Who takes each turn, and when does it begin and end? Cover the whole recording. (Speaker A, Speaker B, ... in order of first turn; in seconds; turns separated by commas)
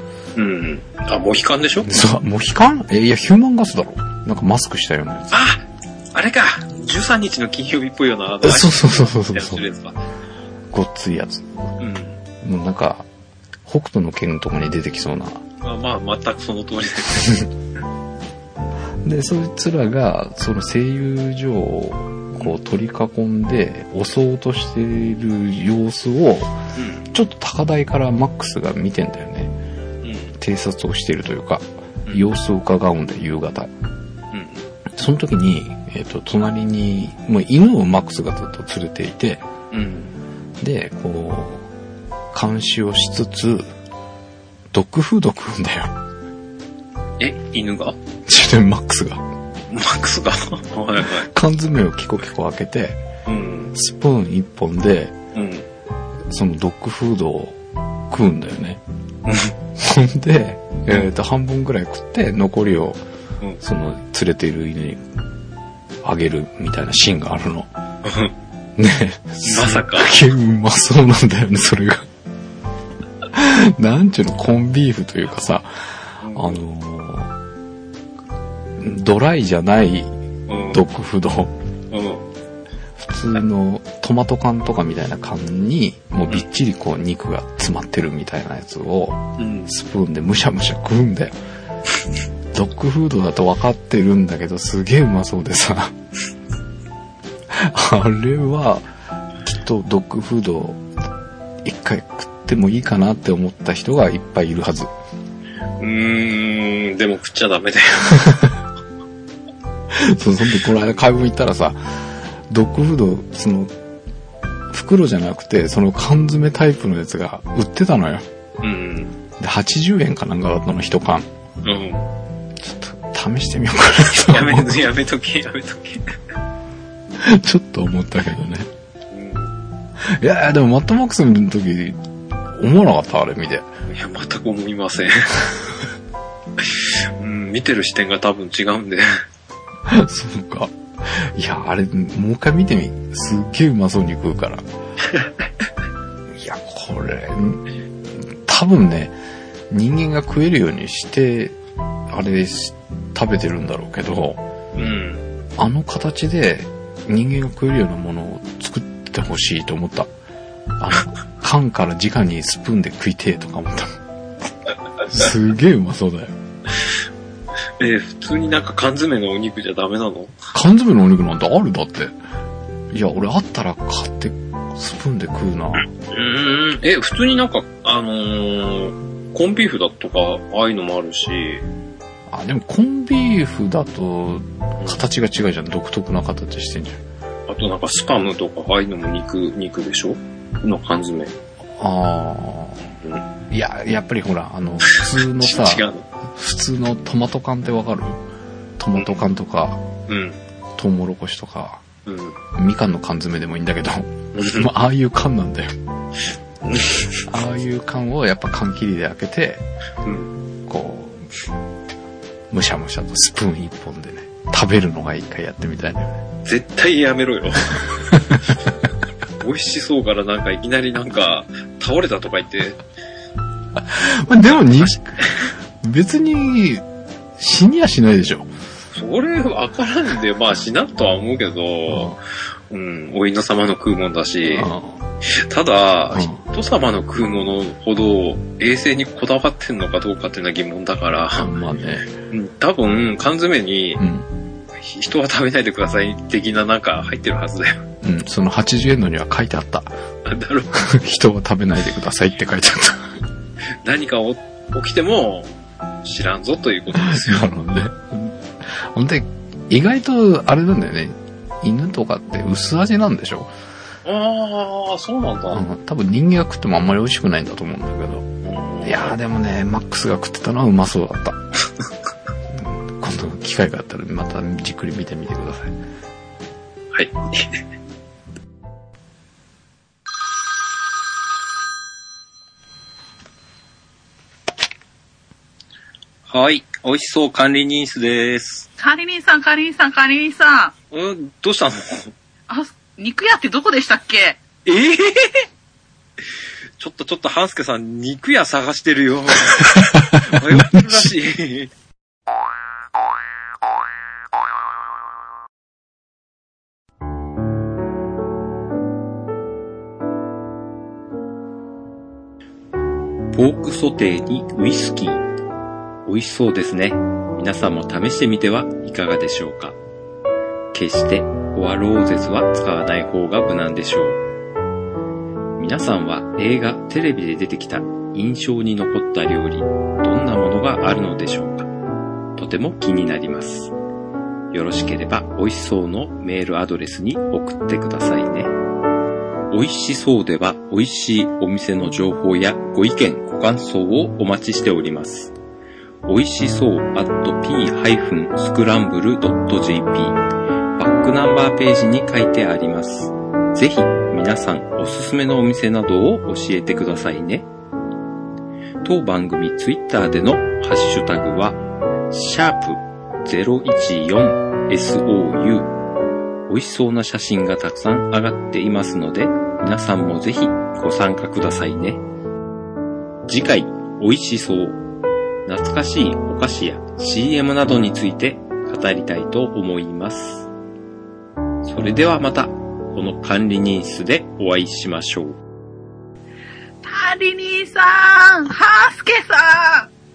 Speaker A: 0.3-2.1, Speaker B: 1.9-5.3, Speaker A: 5.3-5.6, Speaker A: 6.1-10.0, Speaker B: 8.4-9.6, Speaker B: 10.7-11.6, Speaker A: 11.8-12.2, Speaker B: 12.4-13.1, Speaker B: 13.7-15.4, Speaker A: 15.6-17.4, Speaker B: 19.0-26.5, Speaker A: 26.7-27.1, Speaker B: 27.1-29.5, Speaker A: 30.0-30.3, Speaker B: 30.4-33.7, Speaker A: 34.3-34.6, Speaker B: 35.0-39.4, Speaker A: 39.7-40.1, Speaker B: 40.6-41.6, Speaker B: 42.3-43.6, Speaker B: 44.7-45.9, Speaker A: 47.2-48.0, Speaker B: 48.2-49.2, Speaker A: 49.7-51.3, Speaker B: 51.0-53.0, Speaker A: 53.2-53.7, Speaker B: 53.7-55.1, Speaker A: 55.3-55.6, Speaker B: 56.3-57.6, Speaker B: 58.1-58.8, Speaker A: 59.2-59.5, Speaker B: 59.8-63.0, Speaker B: 63.6-65.0, Speaker B: 66.0-67.7, Speaker A: 68.0-68.3, Speaker B: 68.8-72.0, Speaker A: 69.4-70.2, Speaker B: 73.3-75.7, Speaker A: 76.2-76.6, Speaker B: 76.3-77.3, Speaker B: 78.8-80.2, Speaker A: 80.5-80.8, Speaker B: 80.7-81.5, Speaker A: 81.9-82.2, Speaker B: 83.0-91.3, Speaker A: 89.4-89.7, Speaker B: 92.5-95.9, Speaker B: 97.5-98.9, Speaker B: 99.4-100.8, Speaker B: 101.6-104.9, Speaker A: 105.8-108.3, Speaker B: 108.2-108.5, Speaker B: 109.9-111.8, Speaker B: 112.5-113.7, Speaker B: 114.7-118.2, Speaker A: 118.6-119.2, Speaker B: 119.4-121.3, Speaker A: 121.6-122.1, Speaker B: 122.6-124.9, Speaker A: 124.1-126.1, Speaker B: 127.2-128.7, Speaker A: 129.1-129.5, Speaker B: 130.0-132.0, Speaker B: 132.5-133.7, Speaker A: 133.9-135.4, Speaker A: 136.6-139.2, Speaker B: 139.9-144.6, Speaker B: 146.3-147.6, Speaker B: 148.2-149.1, Speaker B: 149.7-151.6, Speaker B: 152.1-154.4, Speaker A: 154.8-155.2, Speaker B: 155.6-160.1, Speaker B: 160.8-163.9, Speaker B: 165.1-166.3, Speaker A: 167.8-170.3, Speaker B: 170.5-172.2, Speaker B: 172.9-175.9, Speaker A: 175.9-181.6, Speaker B: 182.3-187.0, Speaker A: 187.5-191.3, Speaker B: 191.8-192.8, Speaker A: 193.0-193.2, Speaker B: 193.5-198.2, Speaker A: 194.8-196.1, Speaker B: 198.8-199.8, Speaker A: 198.9-199.2, Speaker A: 200.1-200.4, Speaker B: 200.8-201.8, Speaker A: 202.1-202.4, Speaker B: 202.6-205.7, Speaker A: 204.3-204.7, Speaker A: 206.6-207.2, Speaker B: 207.3-209.6, Speaker A: 210.0-210.3, Speaker B: 210.7-211.3, Speaker B: 212.5-216.2, Speaker A: 216.4-217.9, Speaker B: 218.1-218.4, Speaker A: 219.4-222.8, Speaker B: 223.8-225.2, Speaker A: 224.4-225.5, Speaker B: 225.8-226.8, Speaker B: 227.4-228.5, Speaker A: 228.9-234.7, Speaker B: 231.9-232.2, Speaker B: 234.4-235.0, Speaker A: 235.2-241.5, Speaker B: 236.1-236.4, Speaker B: 241.4-242.1, Speaker A: 242.3-244.0, Speaker B: 244.0-244.3, Speaker A: 244.8-247.8, Speaker B: 248.0-249.9, Speaker A: 250.2-250.7, Speaker B: 250.7-253.2, Speaker A: 253.8-255.5, Speaker A: 256.0-257.5, Speaker B: 256.9-263.5, Speaker A: 264.0-265.6, Speaker B: 265.5-268.3, Speaker A: 268.4-269.1, Speaker B: 268.8-271.4, Speaker B: 272.5-275.7, Speaker A: 276.9-277.6, Speaker A: 286.3-288.7, Speaker C: 288.8-290.7, Speaker A: 290.9-292.1, Speaker C: 292.5-294.4, Speaker A: 294.6-295.5, Speaker A: 296.8-301.7, Speaker B: 299.7-301.1, Speaker A: 313.3-315.2, Speaker A: 316.1-319.8, Speaker A: 320.7-324.2, Speaker A: 325.6-331.7, Speaker A: 332.4-333.7, Speaker A: 334.5-338.5, Speaker A: 339.5-345.3, Speaker A: 346.1-350.2, Speaker A: 350.8-357.5, Speaker A: 358.8-365.7, Speaker A: 366.5-372.0, Speaker A: 373.3-374.8, Speaker A: 375.4-380.5, Speaker A: 381.6-385.4, Speaker C: 386.8-389.9